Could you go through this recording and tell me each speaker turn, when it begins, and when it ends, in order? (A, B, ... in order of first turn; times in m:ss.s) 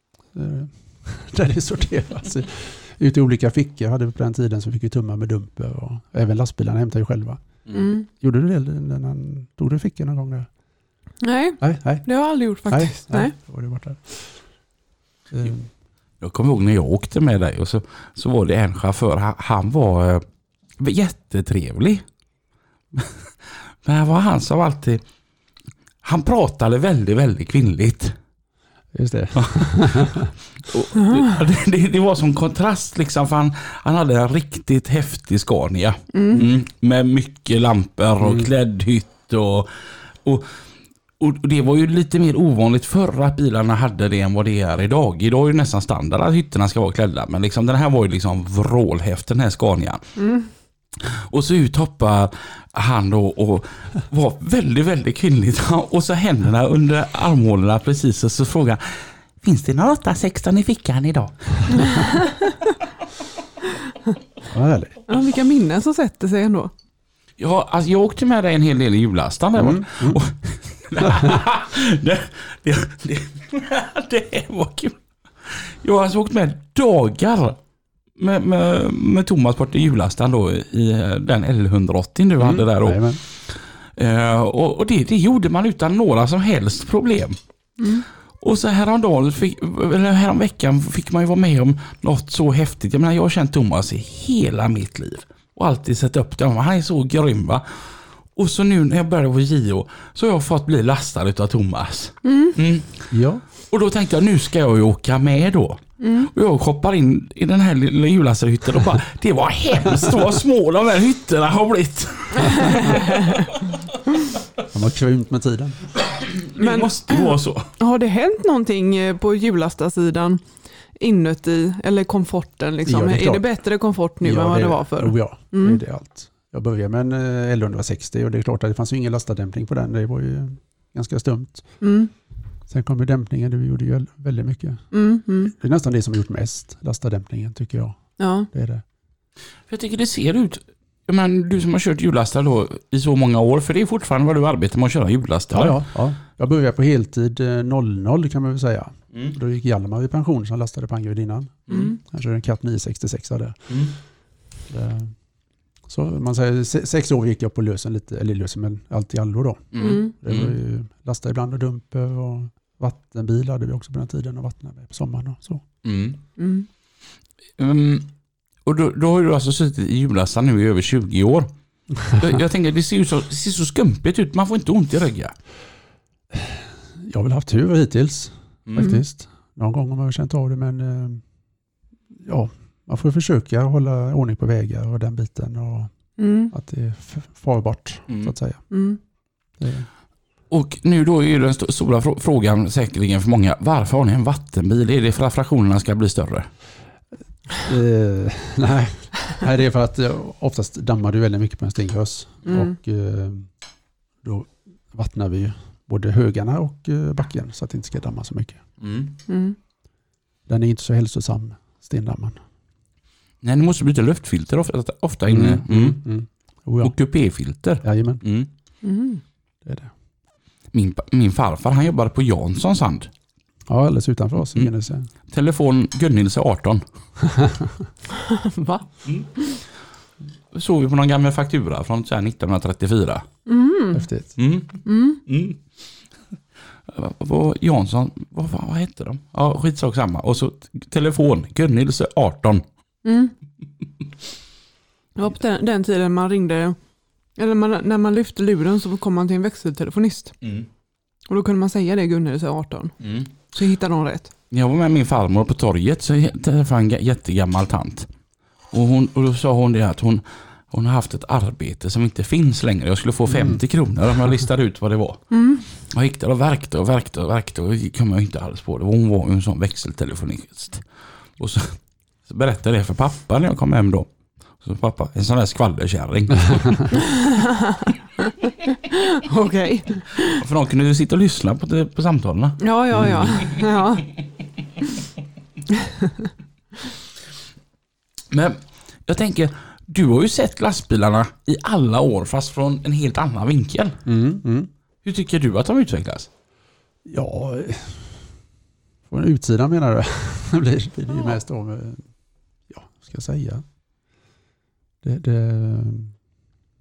0:00.3-0:07.4 A
0:07.7-0:08.1 B
0:08.1-0:10.5 A
0:11.2-0:13.3 B
0:11.6-0:14.4 A
0:15.3-0:15.7 A
0:16.2-0:20.2 C
0:20.8-0:22.0 C
0:22.9-0:23.3 C
0:23.8-0:25.0 C
0:26.0-0:28.2 C
0:28.9-0:30.3 A
0:29.4-0:40.5 C
0:31.0-0:31.2 B
0:36.1-0:36.4 B
0:38.2-0:38.5 A
0:41.2-0:50.2 C
0:50.2-0:50.5 B
0:51.0-1:02.2 C
1:04.5-1:05.0 A
1:05.1-1:06.7 B
1:07.4-1:17.6 C
1:09.6-1:10.2 A
1:11.0-1:11.4 A
1:18.2-1:27.3 C
1:22.4-1:23.2 A
1:27.8-1:28.0 B
1:28.4-1:43.1 C
1:42.2-1:42.6 B
1:43.1-1:43.4 A
1:43.7-1:53.7 C
1:46.0-1:46.3 B
1:52.6-1:53.4 B
1:54.7-1:55.8 A
1:56.0-1:57.7 C
1:56.6-2:05.8 B
2:02.8-2:03.6 A
2:04.2-2:11.8 A
2:11.8-2:12.1 B
2:12.7-2:14.9 A
2:14.9-2:15.5 B
2:15.4-2:18.8 A
2:18.2-2:18.5 B
2:19.7-2:25.8 C
2:25.5-2:33.8 A
2:31.7-2:31.9 C
2:31.7-2:32.0 B
2:33.7-2:34.0 C
2:34.7-2:35.2 A
2:35.8-2:45.6 A
2:39.7-2:40.5 C
2:39.8-2:40.1 B
2:45.8-2:46.2 C
2:46.4-2:46.7 B
2:47.6-2:48.1 C
2:48.6-2:55.3 C
2:56.3-3:01.2 A
2:58.7-2:58.9 C
3:02.2-3:08.7 A
3:06.2-3:06.5 B
3:08.1-3:08.3 C
3:08.7-3:09.0 B
3:09.6-3:09.9 A
3:10.5-3:16.5 C
3:17.6-3:23.5 A
3:22.4-3:22.7 B
3:24.2-3:28.6 A
3:28.8-3:29.1 C
3:29.3-3:29.6 B
3:30.5-3:32.4 A
3:33.4-3:36.0 C
3:35.3-3:36.9 A
3:36.8-3:38.5 C
3:37.8-3:38.2 A
3:38.8-3:39.2 B
3:39.6-3:39.9 A
3:40.7-3:43.1 C
3:43.7-3:45.1 A
3:45.3-3:46.8 C
3:47.4-3:47.6 A
3:48.4-3:48.8 B
3:50.5-3:53.2 C
3:53.4-3:54.0 B
3:53.9-3:54.3 A
3:54.4-3:55.8 C
3:54.8-3:55.2 B
3:56.9-4:02.6 C
4:03.0-4:03.3 B
4:05.2-4:06.8 B
4:07.4-4:10.3 B
4:10.4-4:10.7 C
4:11.3-4:14.3 B
4:13.0-4:13.3 C
4:14.5-4:18.1 C
4:18.7-4:37.0 C
4:23.3-4:23.6 A
4:25.3-4:25.6 B
4:37.3-4:38.3 B
4:39.1-4:40.4 B
4:40.4-4:43.6 C
4:42.6-4:44.0 B
4:42.9-4:43.3 A
4:48.3-4:54.0 C
4:54.0-4:54.7 A
4:55.0-4:56.3 C
4:57.0-4:58.4 A
4:59.1-5:02.1 A
5:02.7-5:03.6 A
5:05.0-5:06.1 A